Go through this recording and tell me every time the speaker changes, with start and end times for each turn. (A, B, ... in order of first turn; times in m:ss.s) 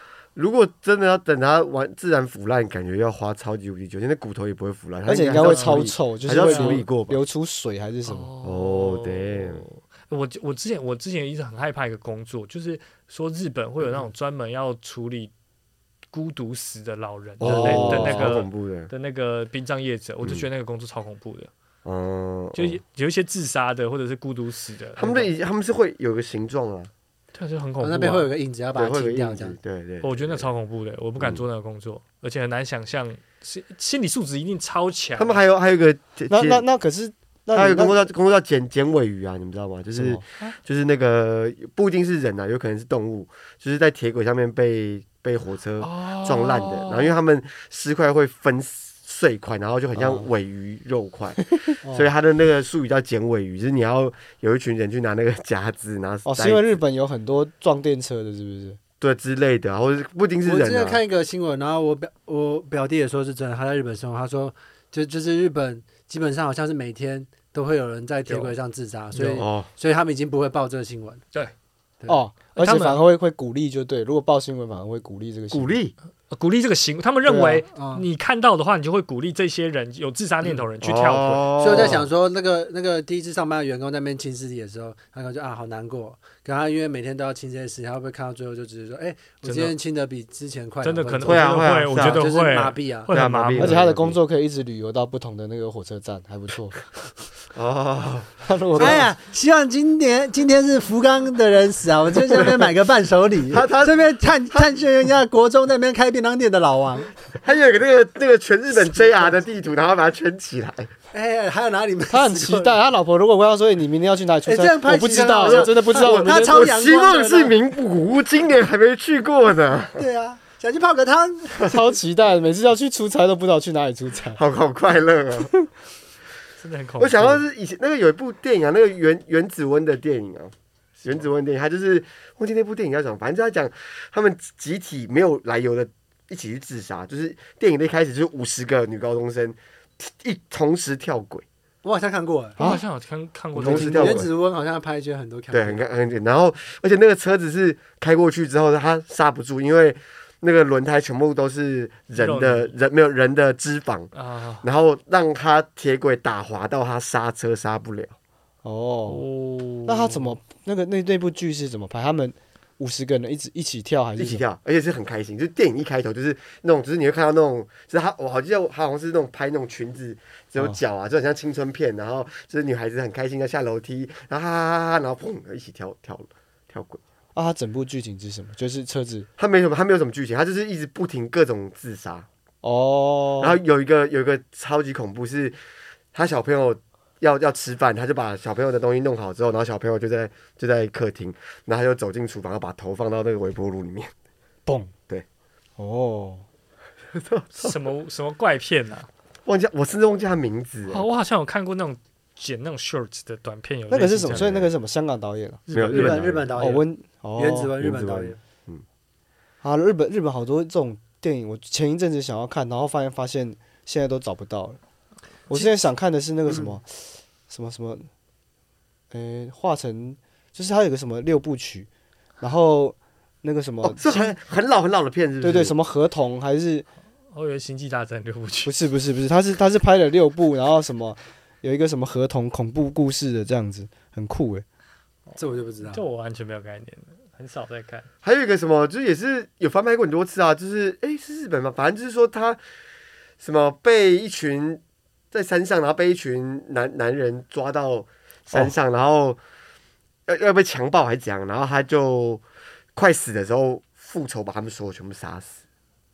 0:00.4-0:07.2 A
0:05.1-0:08.3 B
0:05.4-0:06.8 C
0:08.0-0:15.3 C
0:08.4-0:09.6 A
0:16.1-0:21.5 C
0:17.4-0:18.9 A
0:17.4-0:18.3 B
0:21.8-0:22.8 A
0:22.6-0:25.3 C
0:25.0-0:26.9 A
0:27.3-0:28.3 C
0:27.8-0:29.6 D
0:28.8-0:30.5 A
0:30.0-0:35.4 C
0:35.2-0:36.6 A
0:36.3-0:38.0 B
0:37.5-0:56.7 A
0:40.0-0:40.2 B
0:45.8-0:47.1 C
0:50.0-0:50.3 B
0:51.8-0:52.1 D
0:56.3-0:58.8 B
0:59.0-1:01.0 A
1:00.4-1:11.2 D
1:08.3-1:08.5 C
1:09.2-1:09.4 C
1:09.4-1:09.7 A
1:12.1-1:15.8 B
1:12.6-1:13.0 C
1:15.5-1:15.9 A
1:16.3-1:21.9 C
1:17.3-1:17.6 B
1:17.7-1:18.0 D
1:20.8-1:22.1 A
1:21.6-1:33.1 D
1:29.4-1:29.7 C
1:30.8-1:33.8 C
1:31.2-1:32.2 A
1:33.1-1:34.2 A
1:33.6-1:36.9 B
1:37.5-1:39.1 A
1:38.4-1:39.1 B
1:38.8-1:47.1 D
1:43.5-1:44.7 A
1:47.4-1:50.9 A
1:51.1-1:52.8 D
1:52.1-1:56.7 B
1:54.5-1:57.6 D
1:55.2-2:00.0 A
2:00.0-2:01.8 D
2:01.6-2:04.4 B
2:04.4-2:05.5 A
2:06.6-2:07.4 C
2:07.0-2:21.4 A
2:21.8-2:22.6 D
2:22.6-2:22.8 B
2:22.6-2:24.3 C
2:23.5-2:24.3 A
2:23.6-2:25.8 D
2:25.5-2:34.1 A
2:32.2-2:32.7 C
2:34.2-2:34.6 C
2:34.6-2:38.1 A
2:38.6-2:39.2 B
2:39.1-2:40.4 C
2:39.9-2:44.4 B
2:44.2-2:57.0 A
2:57.4-2:59.3 B
2:59.4-3:02.3 A
3:02.6-3:03.6 B
3:03.4-3:05.6 A
3:06.1-3:14.1 A
3:14.7-3:14.9 B
3:15.8-3:16.4 B
3:17.1-3:17.8 A
3:17.6-3:19.1 C
3:19.5-3:21.0 A
3:20.9-3:24.7 C
3:23.9-3:25.6 B
3:24.3-3:24.7 A
3:25.7-3:26.5 C
3:25.7-3:26.5 A
3:25.9-3:28.4 D
3:26.6-3:27.8 B
3:27.8-3:28.8 A
3:29.6-3:34.8 B
3:35.5-3:37.0 B
3:37.5-3:38.1 B
3:39.1-3:41.9 B
3:42.4-3:44.3 B
3:43.8-3:45.8 A
3:45.4-3:46.8 B
3:47.3-3:48.7 C
3:48.6-3:54.6 B
3:55.3-3:58.1 C
3:55.4-3:56.0 D
3:58.2-4:02.6 A
4:03.4-4:09.4 A
4:10.3-4:12.4 A
4:13.0-4:15.6 A